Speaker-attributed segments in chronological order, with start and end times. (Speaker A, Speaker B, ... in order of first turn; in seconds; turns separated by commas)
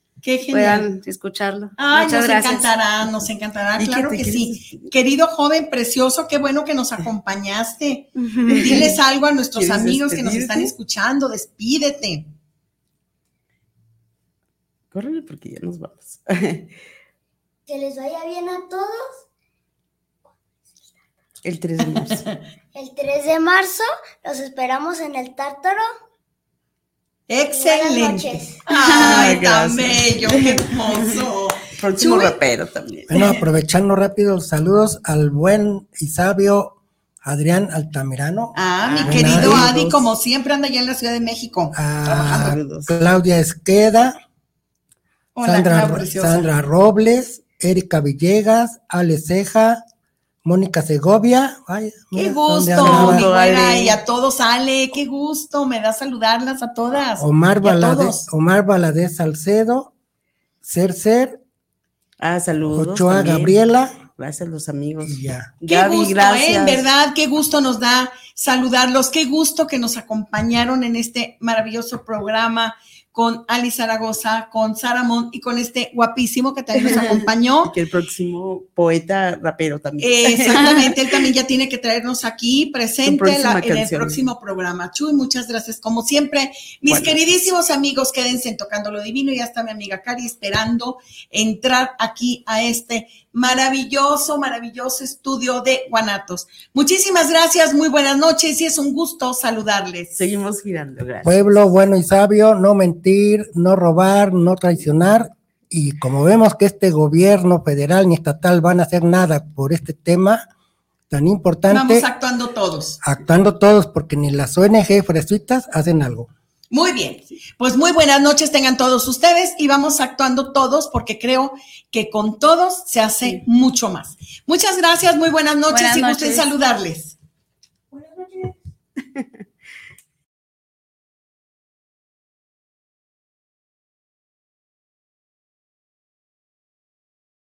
Speaker A: 0.2-0.9, Speaker B: 0.5-2.7, Speaker A: 1.8-12.3, Speaker C: 3.8-4.9, Speaker B: 8.2-8.9, Speaker C: 8.5-9.0, Speaker C: 9.6-10.7, Speaker C: 14.9-16.8, Speaker D: 17.7-19.1, Speaker C: 21.4-22.2, Speaker A: 21.9-22.4, Speaker D: 22.8-25.9, Speaker A: 27.3-32.4, Speaker D: 27.5-28.6, Speaker C: 28.8-31.1, Speaker C: 31.8-33.1, Speaker E: 33.1-39.7, Speaker A: 33.1-33.4, Speaker A: 38.5-42.6, Speaker C: 38.8-40.2, Speaker E: 41.7-44.2, Speaker C: 42.0-43.0, Speaker A: 45.4-46.5, Speaker E: 45.4-49.8, Speaker E: 50.5-53.2, Speaker A: 52.1-58.3, Speaker C: 52.8-54.0, Speaker E: 57.2-59.9, Speaker E: 60.6-61.4, Speaker C: 62.2-63.6, Speaker E: 62.7-64.0, Speaker C: 64.2-66.9, Speaker E: 65.0-65.5, Speaker A: 65.7-77.7, Speaker C: 76.8-81.0, Speaker A: 80.0-100.2, Speaker C: 83.0-84.2, Speaker C: 86.9-87.2, Speaker C: 100.1-101.7, Speaker E: 101.2-110.4, Speaker E: 111.1-112.1, Speaker A: 111.7-113.0, Speaker E: 113.0-116.3, Speaker A: 116.7-127.2, Speaker B: 125.7-126.5, Speaker D: 128.0-128.3